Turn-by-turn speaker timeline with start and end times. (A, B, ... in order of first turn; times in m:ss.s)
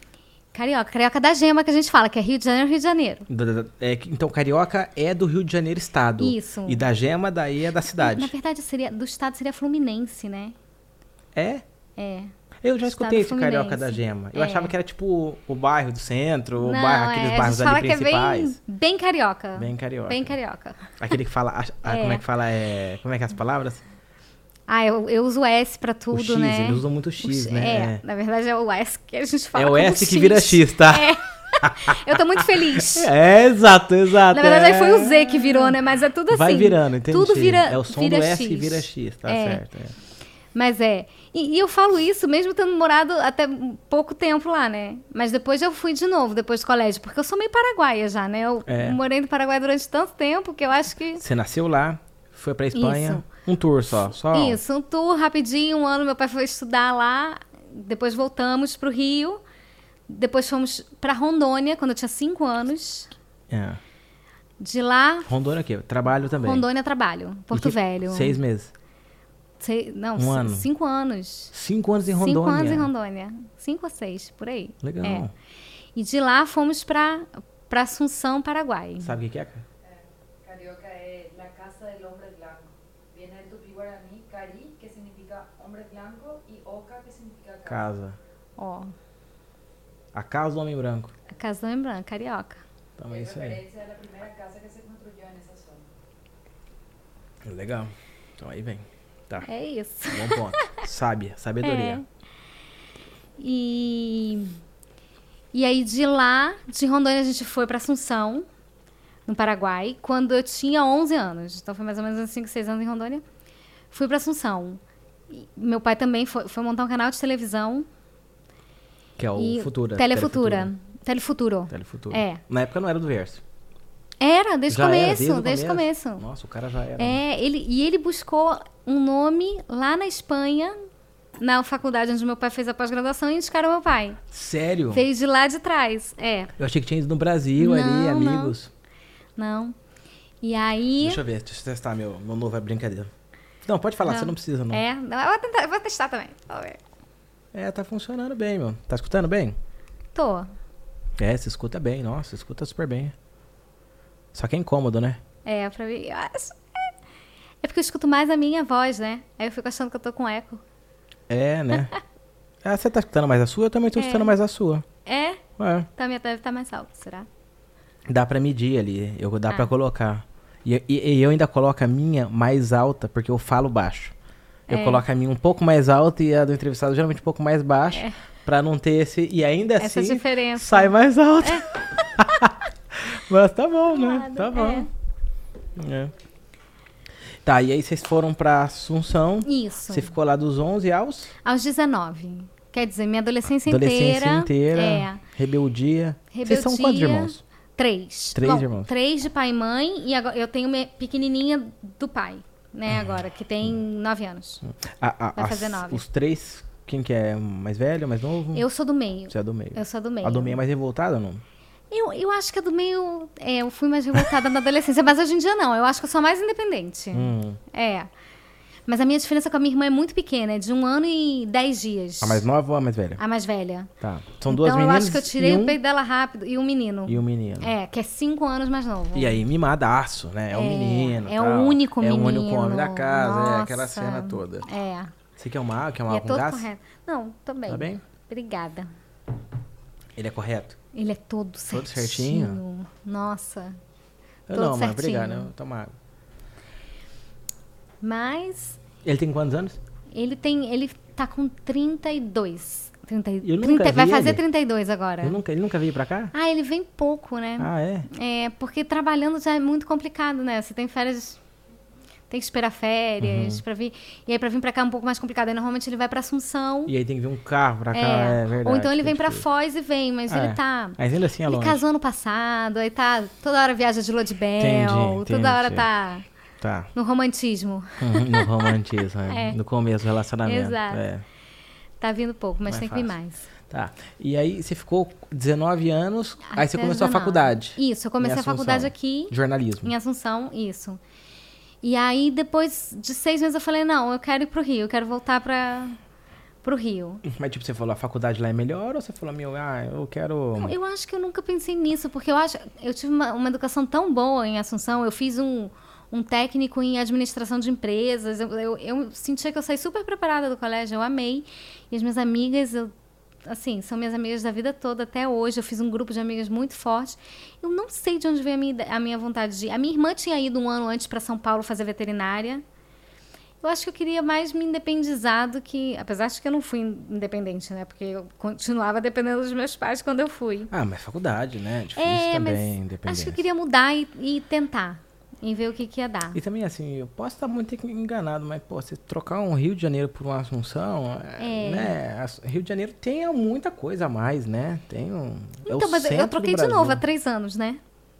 0:00.5-0:03.3 A
0:03.3-0:08.3 B
0:06.2-0:06.8 A
0:08.0-0:10.5 A
0:11.3-0:11.6 B
0:12.0-0:12.3 A
0:12.6-0:18.6 B
0:12.9-0:14.7 A
0:16.6-0:21.0 A
0:19.5-0:20.4 B
0:21.0-0:23.8 B
0:21.8-0:22.2 A
0:24.7-0:33.1 A
0:26.1-0:28.0 B
0:29.6-0:35.7 B
0:34.3-0:39.6 A
0:36.3-0:39.9 B
0:40.5-0:51.2 A
0:48.6-0:49.0 B
0:51.2-0:54.6 B
0:52.7-0:53.2 A
0:54.3-0:59.4 A
1:00.1-1:03.1 A
1:03.5-1:03.8 B
1:04.6-1:05.3 A
1:05.3-1:06.6 B
1:06.4-1:08.4 A
1:07.5-1:08.7 B
1:09.6-1:11.5 A
1:10.2-1:10.7 B
1:11.5-1:12.9 B
1:12.1-1:15.2 A
1:14.8-1:15.3 B
1:15.9-1:19.1 A
1:19.0-1:19.6 B
1:19.8-1:27.9 C
1:27.6-1:28.2 B
1:28.6-1:28.9 A
1:30.1-1:31.1 B
1:31.3-1:32.6 A
1:33.0-1:33.6 B
1:33.1-1:35.9 C
1:37.4-1:39.5 B
1:39.4-1:40.6 A
1:40.1-1:42.0 B
1:41.6-1:42.0 A
1:43.4-1:44.6 A
1:45.5-1:48.4 A
1:49.2-1:53.2 A
1:53.9-1:57.9 A
1:59.2-2:00.7 B
1:59.4-2:02.4 A
2:01.7-2:03.4 B
2:04.2-2:06.2 A
2:04.7-2:07.2 B
2:07.0-2:10.8 A
2:11.4-2:14.2 A
2:14.3-2:15.0 B
2:14.9-2:16.5 A
2:16.6-2:18.7 B
2:17.6-2:18.6 A
2:19.4-2:19.7 A
2:20.4-2:21.2 A
2:21.0-2:23.1 B
2:23.6-2:24.8 B
2:24.0-2:26.8 A
2:27.5-2:29.6 B
2:30.1-2:30.5 A
2:31.2-2:33.1 B
2:34.3-2:35.2 B
2:35.4-2:36.9 A
2:37.6-2:40.6 A
2:41.3-2:42.0 B
2:42.6-2:44.8 B
2:43.9-2:44.3 A
2:45.0-2:45.4 A
2:45.6-2:45.9 B
2:46.0-2:47.3 A
2:48.1-2:54.1 B
2:54.7-2:55.0 A
2:54.7-3:04.9 B
2:59.8-3:01.6 A
3:03.9-3:04.9 A
3:05.8-3:06.1 B
3:07.4-3:11.3 B
3:09.4-3:10.1 A
3:11.4-3:15.2 A
3:13.7-3:17.4 B
3:16.3-3:24.6 A
3:18.3-3:18.9 B
3:22.9-3:23.2 B
3:24.6-3:28.6 B
3:25.4-3:26.0 A
3:28.5-3:30.6 A
3:29.3-3:31.4 B
3:31.9-3:38.1 A
3:37.1-3:37.6 B
3:38.9-3:42.5 A
3:42.2-3:43.2 B
3:43.2-3:43.9 A
3:44.0-3:45.8 B
3:44.5-3:49.4 A
3:47.0-3:47.7 B
3:49.1-3:54.7 B
3:50.5-3:55.1 A
3:55.4-3:56.7 B
3:56.1-3:58.9 A
3:57.7-3:58.0 B
4:00.2-4:00.8 B
4:00.9-4:03.8 A
4:01.7-4:02.6 B
4:04.5-4:05.9 B
4:04.5-4:05.5 A
4:08.0-4:08.8 A
4:09.0-4:09.8 B
4:10.1-4:15.4 A
4:13.4-4:14.4 B
4:15.2-4:16.3 B
4:16.3-4:21.4 A
4:17.6-4:18.1 B
4:22.3-4:26.9 A
4:23.2-4:23.6 B
4:26.8-4:29.4 B
4:27.9-4:36.2 A
4:30.3-4:31.8 B
4:34.6-4:35.9 B
4:36.6-4:36.9 B
4:36.9-4:39.6 A
4:38.0-4:41.2 B
4:40.4-4:41.0 A
4:42.0-4:43.5 A
4:42.7-4:43.1 B
4:43.7-4:49.9 B
4:46.5-4:51.0 A
4:51.8-4:56.0 A
4:56.6-4:57.2 A
4:57.2-5:00.7 B
5:00.6-5:12.9 A
5:13.4-5:22.6 A
5:23.6-5:30.7 A
5:30.7-5:33.4 B
5:32.0-5:36.4 A
5:36.3-5:47.0 B
5:41.4-5:42.0 A
5:45.6-5:47.8 A